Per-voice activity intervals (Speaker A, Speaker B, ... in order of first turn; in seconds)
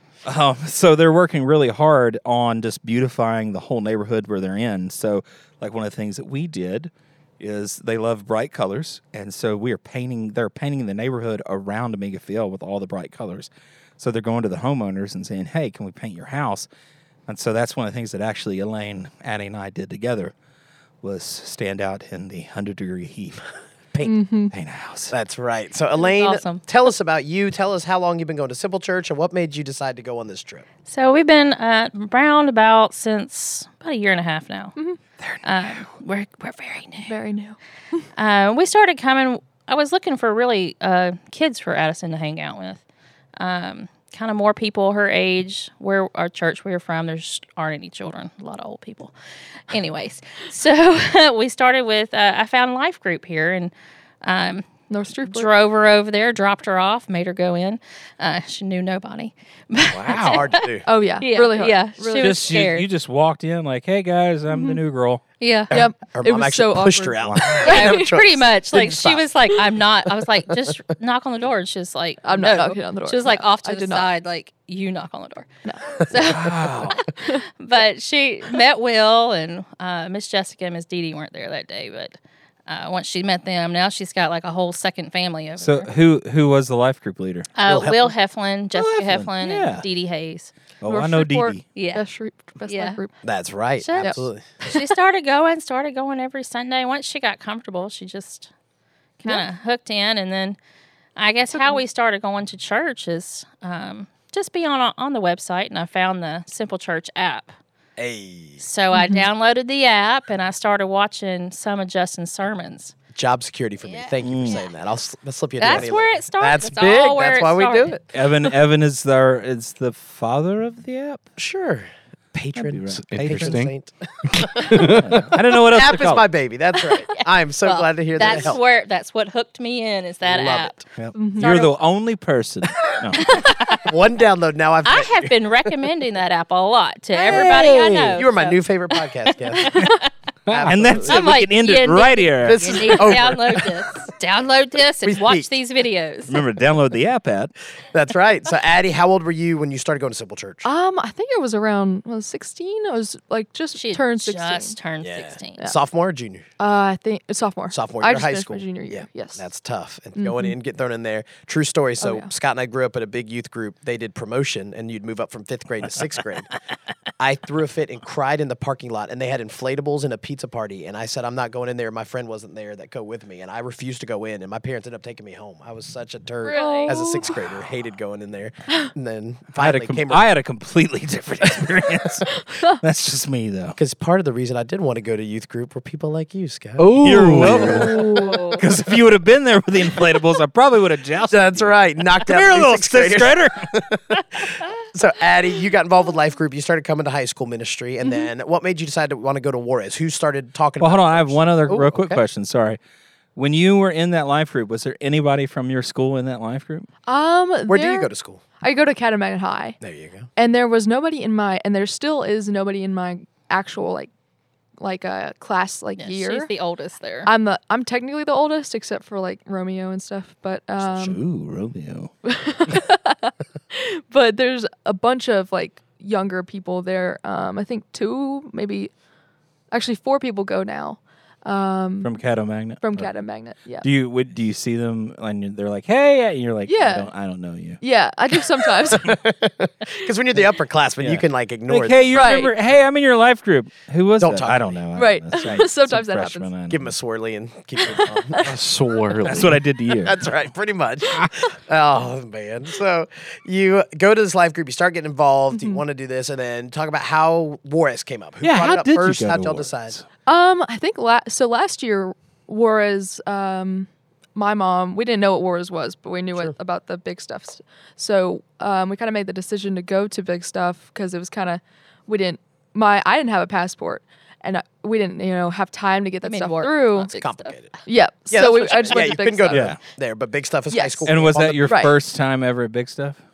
Speaker A: 0.2-16.7, 17.3-20.3, 21.0-23.4, 24.5-25.1, 35.2-35.8, 59.9-60.5, 62.2-65.2, 67.2-67.6, 76.2-77.0, 85.6-87.5, 88.7-89.8, 90.8-91.6, 114.2-114.6, 118.1-121.2, 122.6-123.6, 124.7-126.2, 131.0-133.4, 137.2-138.2, 140.7-142.7, 146.3-147.5, 179.6-183.8, 187.0-194.2, 200.8-202.8, 203.4-206.9, 221.0-222.1, 232.0-233.1, 233.8-237.8, 241.0-246.9, 249.2-250.2, 258.4-260.0, 279.5-279.8, 281.1-283.2
Speaker B: 24.0-24.5, 37.1-37.6, 54.9-55.5, 60.9-62.5, 64.5-64.8, 65.7-68.2, 72.2-74.1, 75.7-75.9, 90.9-93.1, 94.0-94.9, 101.5-101.8, 108.9-109.3, 131.2-131.5, 150.6-154.8, 156.6-159.4, 160.2-160.6, 162.0-162.3, 176.5-177.4, 187.7-188.7, 207.1-208.1, 208.6-209.8, 210.4-214.1, 214.8-216.5, 217.2-221.2, 222.2-228.9, 229.7-232.1, 232.8-233.9, 236.7-237.1, 237.8-239.2, 242.1-242.5, 244.9-246.5, 247.8-248.1, 255.5-255.8, 260.3-277.1, 277.9-279.8, 280.7-281.1, 281.6-281.9
Speaker C: 25.1-30.6, 60.2-60.9, 65.7-69.2, 87.7-88.1, 93.2-94.4, 108.0-108.6, 113.2-118.0, 121.4-128.6, 130.2-130.9, 133.7-135.3, 138.1-139.9, 140.5-141.4, 142.4-143.9, 145.0-145.5, 147.9-150.7, 155.0-156.5, 157.7-166.5, 167.2-180.2, 183.8-188.2, 191.3-202.2, 207.7-208.4, 209.8-210.3, 220.9-221.1, 238.9-242.5, 244.2-244.8, 246.7-248.6, 250.0-260.0, 277.1-277.8, 278.3-281.9
Speaker D: 26.0-26.6, 30.9-34.8, 35.4-37.1, 38.2-42.8, 43.4-49.1, 49.7-53.7, 54.2-54.7, 55.2-60.7, 61.2-62.9, 65.4-65.8, 67.6-85.9, 87.5-90.5, 91.8-92.0, 92.7-93.0, 93.8-98.5, 99.2-100.6, 101.2-107.5, 108.6-113.0, 113.8-114.7, 115.6-118.0, 127.1-130.8, 131.3-131.8, 133.2-133.9, 134.8-139.0, 139.5-140.1, 141.0-146.4, 153.7-155.7, 176.4-177.0, 216.0-217.3, 276.2-277.6
Speaker E: 123.1-123.7, 124.7-125.2, 140.5-140.8, 186.8-188.1, 248.4-249.6